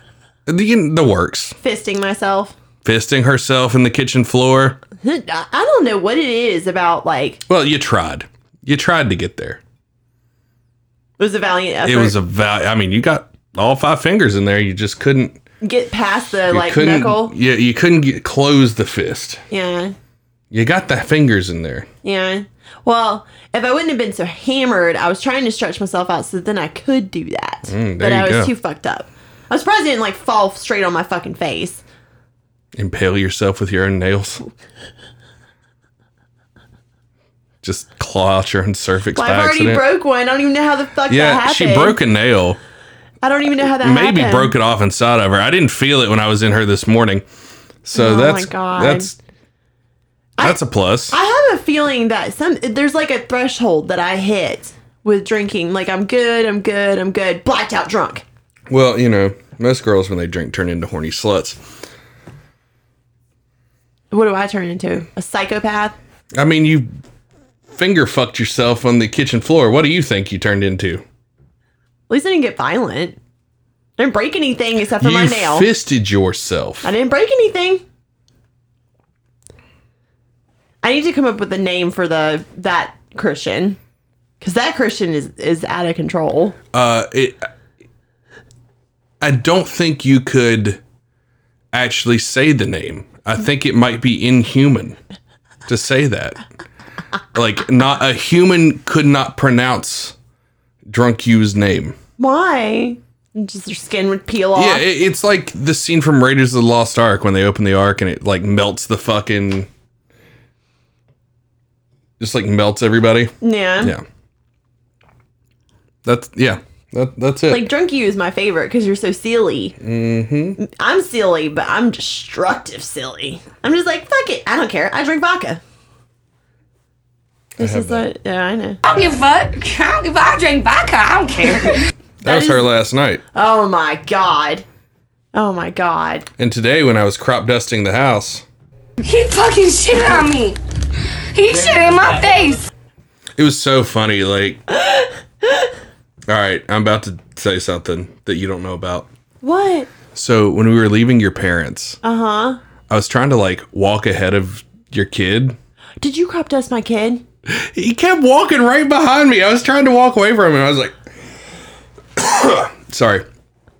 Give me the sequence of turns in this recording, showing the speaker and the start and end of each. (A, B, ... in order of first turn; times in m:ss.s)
0:00.4-0:01.6 A
0:01.6-0:02.6 B
0:02.8-0:04.8 A
0:05.0-0:07.4 B
0:07.5-0:09.6 A
0:11.2-0:12.1 B
0:11.8-0:15.4 A
0:15.6-0:17.3 B
0:16.5-0:19.4 A
0:19.5-0:19.9 B
0:20.5-0:21.9 A
0:22.0-0:31.8 B
0:27.6-0:28.5 A
0:32.8-0:34.4 A
0:37.6-0:39.8 A
0:39.2-0:42.0 B
0:41.1-0:42.6 A
0:43.2-0:44.5 B
0:43.8-0:47.2 A
0:47.8-0:49.2 A
0:47.9-0:49.1 B
0:50.4-0:51.2 A
0:51.1-0:58.2 B
0:58.7-1:01.6 A
1:04.1-1:06.0 B
1:06.4-1:06.9 A
1:07.7-1:11.0 A
1:12.1-1:13.2 B
1:14.0-1:15.7 B
1:15.0-1:16.9 A
1:16.8-1:17.8 B
1:20.8-1:23.8 B
1:24.4-1:26.6 B
1:26.7-1:27.5 A
1:29.2-1:30.8 A
1:31.7-1:35.0 A
1:35.7-1:36.4 A
1:37.3-1:40.1 A
1:40.9-1:42.0 A
1:42.2-1:44.8 B
1:44.5-1:49.7 A
1:52.2-1:54.0 A
1:53.4-1:53.9 B
1:56.0-1:57.7 A
1:57.5-1:59.8 B
1:59.8-2:00.6 A
2:00.6-2:05.6 B
2:07.6-2:08.8 B
2:07.6-2:08.0 A
2:08.8-2:11.8 C
2:12.2-2:13.2 A
2:12.2-2:12.7 B
2:13.3-2:14.6 B
2:15.3-2:16.3 B
2:16.4-2:18.4 A
2:19.0-2:20.6 C
2:21.3-2:22.7 C
2:23.4-2:24.6 A
2:26.3-2:29.1 A
2:29.4-2:29.9 B
2:30.1-2:32.0 A
2:32.0-2:32.6 B
2:32.9-2:35.6 A
2:36.0-2:37.2 B
2:37.5-2:41.0 A
2:42.2-2:43.2 A